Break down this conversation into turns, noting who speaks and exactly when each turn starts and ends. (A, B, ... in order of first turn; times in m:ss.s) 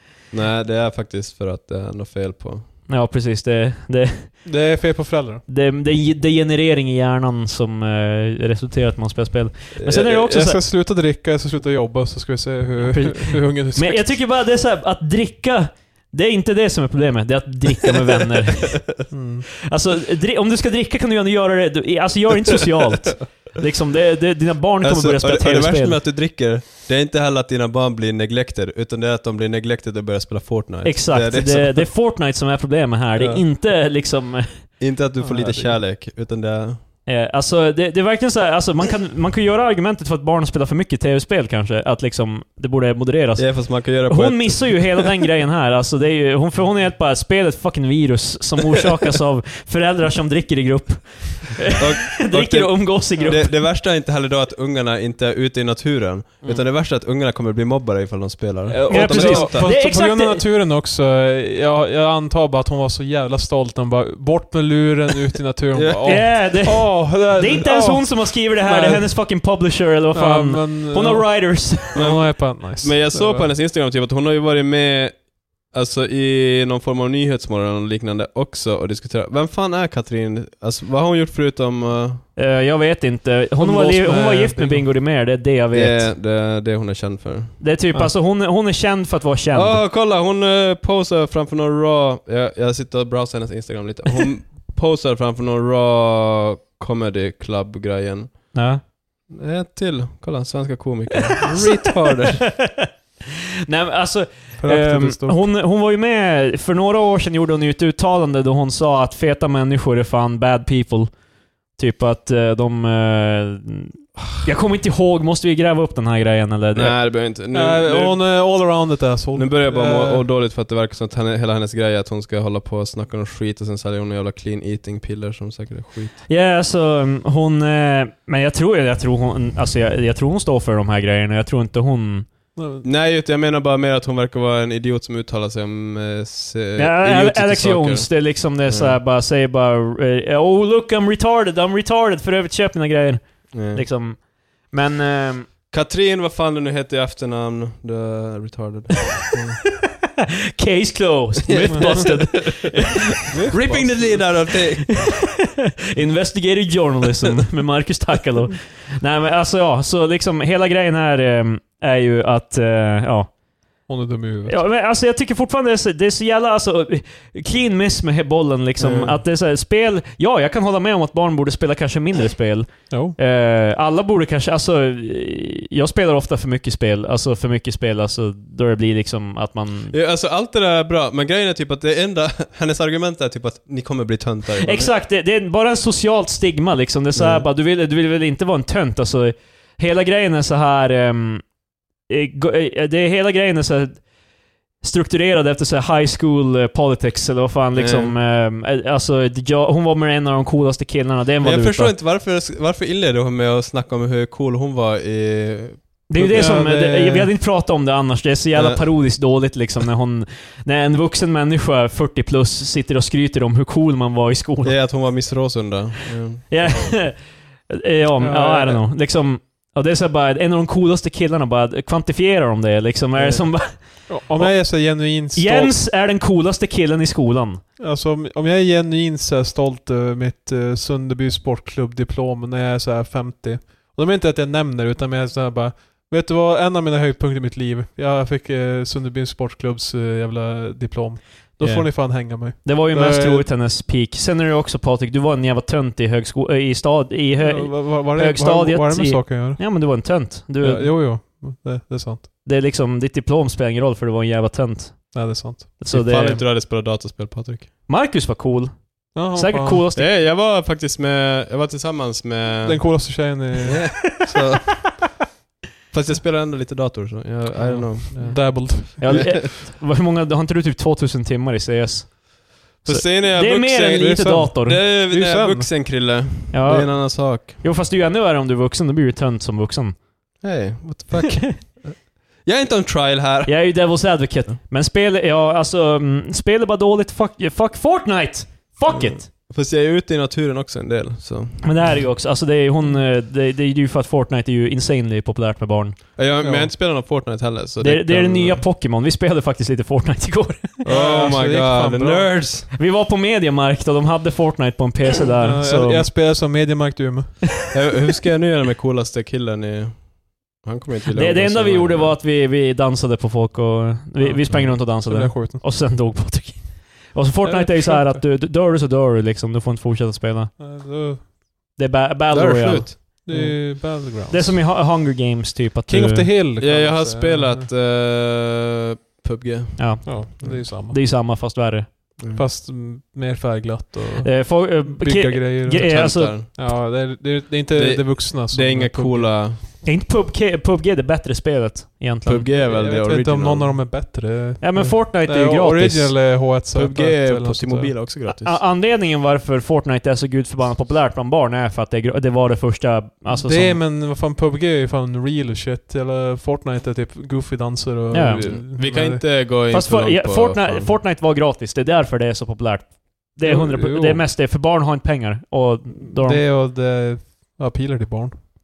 0:00.3-0:02.7 A
0:02.9-0:04.5 B
0:04.4-0:05.4 C
0:05.5-0:10.6 B
0:09.8-0:10.1 A
0:09.9-0:14.2 C
0:12.8-0:19.1 B
0:19.1-0:19.5 C
0:19.7-0:26.0 B
0:24.8-0:31.9 A
0:30.8-0:34.7 B
0:33.2-0:33.4 A
0:34.8-0:36.8 A
0:35.2-0:35.8 C
0:37.1-0:53.6 B
0:43.4-0:45.1 A
0:51.8-0:59.7 A
0:58.7-1:09.1 C
0:58.9-1:00.4 B
1:05.7-1:06.3 A
1:06.0-1:12.2 B
1:10.1-1:13.5 C
1:11.9-1:22.2 A
1:22.4-1:26.1 B
1:23.6-1:24.9 C
1:25.7-1:27.6 A
1:27.6-1:29.8 B
1:29.5-1:38.6 A
1:38.5-1:38.8 B
1:39.3-1:42.4 A
1:41.5-1:42.9 B
1:43.7-1:51.1 B
1:44.6-1:45.4 C
1:51.8-1:57.0 B
1:56.8-1:58.2 A
1:57.5-2:00.2 C
1:59.4-2:06.2 A
2:06.3-2:12.3 B
2:12.6-2:12.8 C
2:12.8-2:19.0 A
2:16.8-2:25.5 B
2:23.5-2:23.8 A
2:25.7-2:29.6 A
2:30.2-2:43.3 B
2:31.5-2:33.0 A
2:33.3-2:34.2 C
2:33.5-2:34.9 A
2:43.9-2:44.6 C
2:44.5-2:59.9 B
2:48.8-2:49.1 A
2:52.9-2:53.2 C
2:59.9-3:04.9 A
3:04.6-3:11.5 B
3:07.2-3:07.4 A
3:12.1-3:14.1 B
3:14.8-3:21.9 B
3:17.8-3:18.2 A
3:21.4-3:26.6 A
3:26.1-3:34.8 B
3:26.3-3:27.3 C
3:28.5-3:28.9 A
3:34.6-3:36.8 A
3:36.5-3:47.6 B
3:38.2-3:38.8 C
3:44.1-3:45.8 C
3:47.8-4:03.5 C
4:01.6-4:10.9 B
4:07.4-4:09.7 C
4:10.6-4:12.3 C
4:12.4-4:16.4 B
4:15.1-4:15.8 C
4:15.9-4:17.7 A
4:17.9-4:20.1 B
4:19.1-4:19.8 C
4:20.0-4:24.9 A
4:22.6-4:23.8 C
4:25.9-4:29.5 A
4:27.6-4:29.3 C
4:29.0-4:34.9 B
4:32.8-4:37.5 A
4:34.2-4:35.7 C
4:36.5-4:40.1 B
4:40.4-4:43.8 A
4:43.5-4:49.3 B
4:48.9-4:52.0 A
4:51.6-4:56.2 B
4:56.2-4:58.6 A
4:56.4-4:56.7 C
4:57.8-5:00.8 B
5:00.8-5:02.3 C
5:00.9-5:02.7 A
5:02.7-5:06.1 B
5:05.4-5:07.7 C
5:07.7-5:12.2 A
5:11.1-5:20.5 B
5:14.2-5:15.6 C
5:17.4-5:18.2 C
5:20.6-5:21.3 C
5:21.8-5:26.3 B
5:22.3-5:23.4 A
5:23.2-5:24.6 C
5:25.9-5:27.7 C
5:26.6-5:30.6 A
5:29.8-5:32.2 B
5:30.0-5:31.0 C
5:32.2-5:32.4 A
5:32.3-5:39.5 C
5:34.2-5:36.4 B
5:35.8-5:36.8 A
5:37.8-5:39.6 A
5:39.8-5:42.5 B
5:42.2-5:43.8 A
5:42.5-5:48.0 C
5:44.6-5:46.2 B
5:46.7-5:48.6 A
5:48.3-5:53.8 B
5:53.3-5:59.2 C
5:58.1-5:58.5 B
5:58.4-6:00.9 A
5:59.7-6:06.4 B
6:03.4-6:04.2 C
6:06.0-6:08.4 C